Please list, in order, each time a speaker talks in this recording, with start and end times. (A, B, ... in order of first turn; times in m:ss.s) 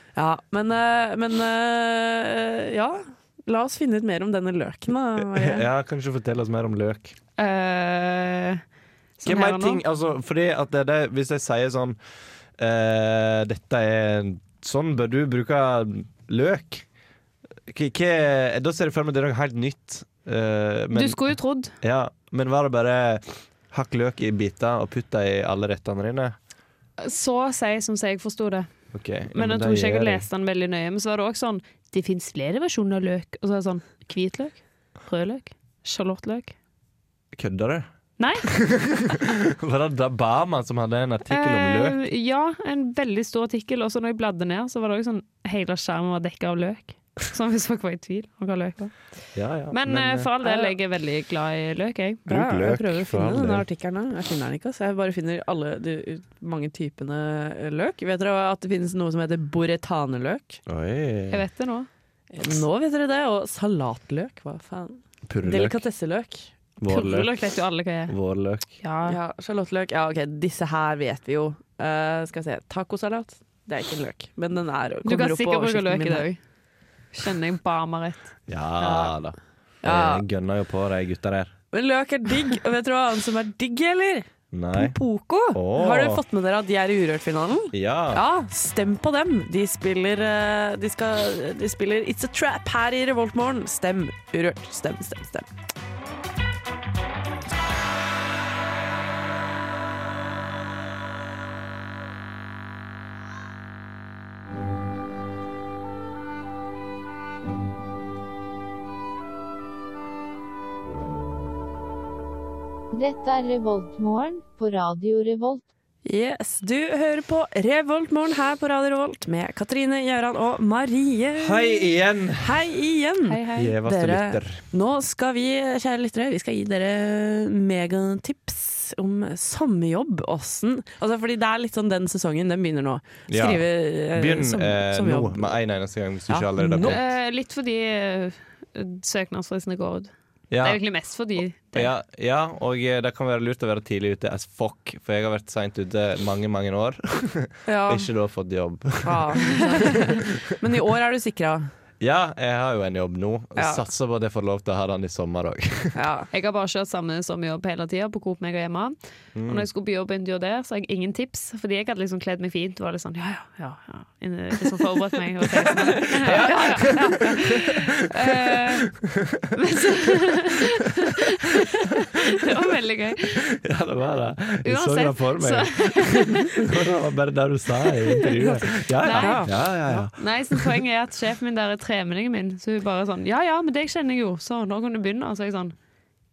0:00.1-0:05.6 A
0:05.2-0:07.1 B
0:07.4-0:08.6 C
0:09.2-0:09.8 C
0:09.2-0:12.0 B
0:12.6-0:16.9 B
0:17.7-0:26.4 B
0:20.9-0:21.7 C
0:27.0-0:28.7 C
0:28.9-0:30.2 B
0:29.3-0:36.6 C
0:37.3-0:37.9 B
0:38.2-0:38.5 C
0:38.4-0:42.0 B
0:41.3-0:49.0 C
0:49.4-0:50.3 B
0:49.7-0:52.2 C
0:50.4-0:50.7 A
0:52.2-1:00.6 A
0:52.3-0:53.6 B
1:00.7-1:01.4 B
1:01.3-1:01.9 C
1:02.3-1:06.5 A
1:05.3-1:05.8 B
1:06.8-1:07.3 B
1:06.9-1:08.2 C
1:08.1-1:08.7 B
1:08.8-1:09.2 C
1:09.1-1:16.3 A
1:15.0-1:16.4 C
1:17.1-1:18.3 C
1:18.5-1:21.5 B
1:19.8-1:20.2 A
1:21.7-1:35.5 A
1:24.5-1:25.0 B
1:25.5-1:26.2 B
1:27.7-1:28.2 B
1:52.9-1:55.6 D
1:56.0-2:01.9 A
2:01.4-2:02.6 B
2:02.4-2:15.5 A
2:03.3-2:03.8 C
2:03.5-2:04.6 B
2:13.3-2:17.0 B
2:16.3-2:17.0 A
2:16.8-2:21.9 C
2:20.5-2:20.8 B
2:21.7-2:30.3 B
2:27.7-2:28.1 A
2:29.0-2:31.7 A
2:32.0-2:36.0 B
2:33.6-2:33.8 A
2:36.0-2:36.3 A
2:36.3-2:48.9 C
2:39.4-2:39.7 B
2:45.7-2:49.5 B
2:46.0-2:47.0 A
2:49.6-2:53.5 C
2:53.5-3:00.8 B
2:54.6-2:56.6 C
2:58.2-3:00.1 A
2:59.0-3:05.8 C